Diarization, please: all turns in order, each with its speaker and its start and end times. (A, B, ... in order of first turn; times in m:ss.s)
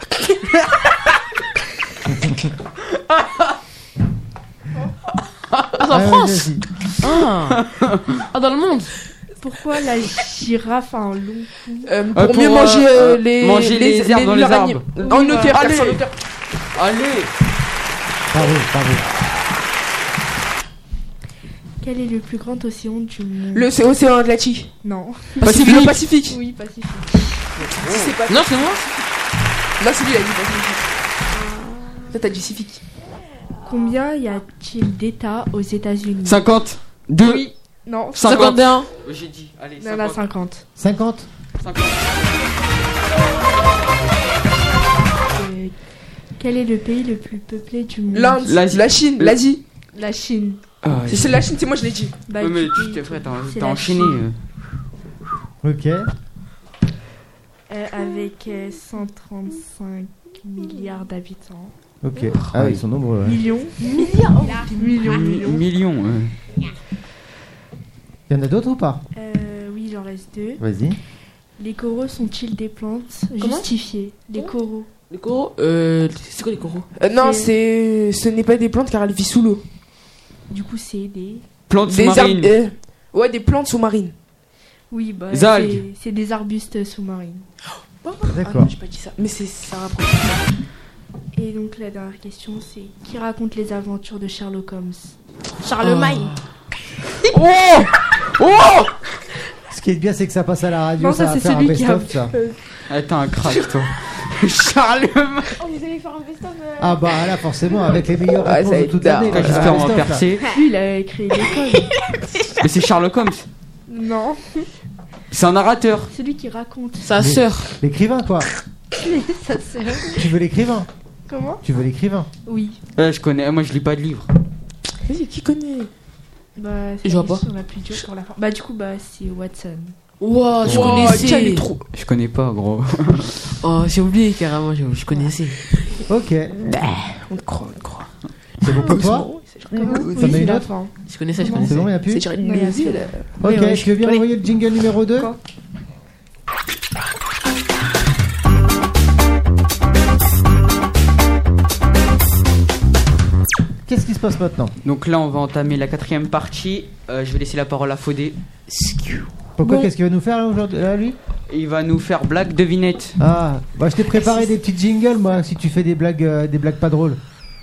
0:02.1-0:02.5 A
0:05.5-0:07.6 B
0:05.9-0:06.6 A
0:07.5-0:08.0 C
0:08.3-0:08.9 B
0:09.4-0:11.9 D
0:11.8-0:16.1 E
0:12.1-0:14.8 C
0:15.0-0:15.6 D
0:16.7-0:17.3 C
0:18.3-0:19.0 A
0:21.8-0:23.7 D
0:23.5-0:24.7 E
0:24.8-0:27.5 D
0:25.4-0:26.4 E
0:25.4-0:25.9 B
0:27.8-0:28.9 B
0:27.8-0:28.8 E
0:29.8-0:30.9 E
0:31.4-0:32.1 D
0:32.1-0:32.8 E
0:33.6-0:36.4 D
0:36.2-0:37.5 C
0:37.2-0:38.4 D
0:38.2-0:40.2 C
0:38.2-0:38.9 B
0:39.8-0:40.6 D
0:40.8-0:41.3 A
0:41.6-0:42.4 C
0:45.3-0:45.8 D
0:46.4-0:48.4 D
0:48.1-0:49.6 E
0:48.4-0:49.4 C
0:49.9-0:50.6 D
0:50.8-0:51.4 C
0:51.0-0:52.2 E
0:52.3-0:54.2 D
0:52.4-0:54.4 C
0:55.6-0:56.1 A
0:57.7-1:01.7 D
1:02.0-1:03.4 A
1:02.5-1:02.8 C
1:03.2-1:05.6 D
1:04.0-1:04.6 E
1:04.0-1:04.7 F
1:05.0-1:06.3 C
1:08.3-1:09.0 A
1:09.1-1:10.6 D
1:10.6-1:11.0 A
1:11.6-1:14.9 D
1:15.1-1:16.9 B
1:17.0-1:19.6 E
1:17.2-1:17.5 D
1:20.5-1:21.4 D
1:21.7-1:22.5 C
1:21.8-1:24.1 E
1:24.9-1:27.4 D
1:25.3-1:25.8 C
1:28.0-1:30.5 E
1:28.3-1:28.7 A
1:31.3-1:35.1 D
1:35.6-1:36.3 F
1:35.8-1:36.3 B
1:39.7-1:42.3 A
1:41.0-1:42.2 D
1:42.3-1:42.6 E
1:42.9-1:45.6 C
1:45.6-1:47.1 F
1:46.8-1:50.3 A
1:48.4-1:49.9 E
1:49.3-1:50.5 C
1:50.5-1:51.9 D
1:52.6-1:53.5 C
1:53.9-1:54.7 D
1:55.3-1:56.1 C
1:56.1-1:57.2 D
1:57.0-1:57.8 B
1:57.2-1:58.5 A
1:59.0-2:00.2 D
2:00.1-2:00.9 A
2:01.3-2:01.6 D
2:01.6-2:02.3 A
2:02.4-2:02.8 D
2:03.0-2:04.3 C
2:05.0-2:05.9 E
2:06.6-2:09.9 D
2:07.0-2:07.4 B
2:10.2-2:11.7 B
2:10.6-2:11.8 E
2:10.7-2:11.0 C
2:11.9-2:13.4 C
2:13.6-2:15.6 B
2:16.1-2:16.5 A
2:16.6-2:20.9 E
2:18.6-2:19.3 A
2:19.8-2:20.6 D
2:20.2-2:20.7 A
2:21.0-2:21.9 B
2:21.4-2:21.7 D
2:21.6-2:22.3 A
2:22.0-2:23.4 E
2:22.4-2:23.1 D
2:23.4-2:25.3 A
2:23.4-2:24.2 F
2:33.9-2:34.7 A
2:34.8-2:38.4 C
2:38.7-2:39.3 B
2:39.6-2:41.2 A
2:41.5-2:43.2 C
2:43.2-2:47.2 A
2:44.2-2:44.5 F